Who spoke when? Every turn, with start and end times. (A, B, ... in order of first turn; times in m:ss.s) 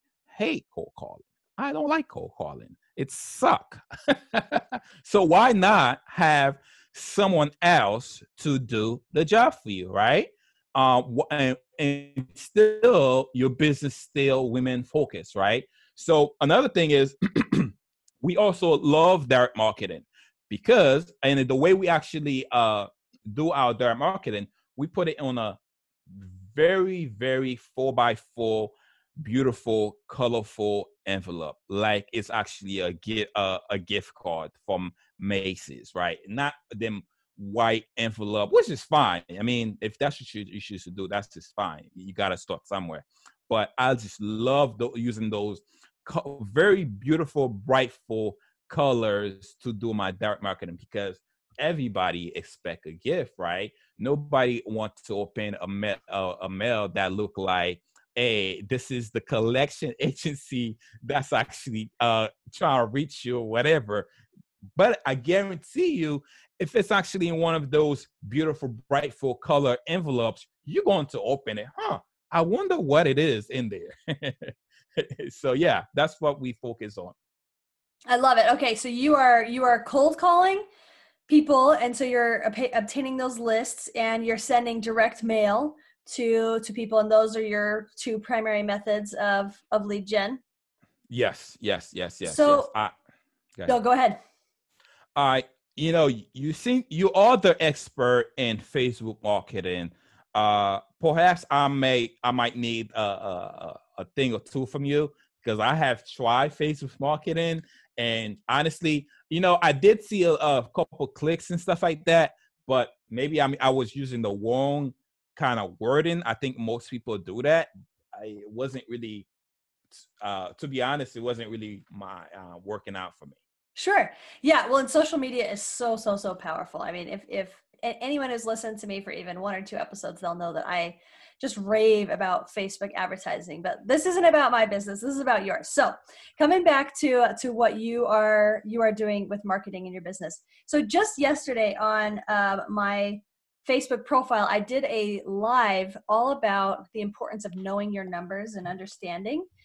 0:00.3-0:25.6 A
0:26.1-1:04.1 A
1:04.8-1:17.1 A
1:18.1-1:20.6 B
1:21.3-1:30.4 B
1:31.1-1:32.9 A
1:32.2-1:32.7 B
1:33.7-1:34.2 B
1:35.2-1:59.3 A
2:00.2-2:03.4 A
2:03.8-2:29.4 B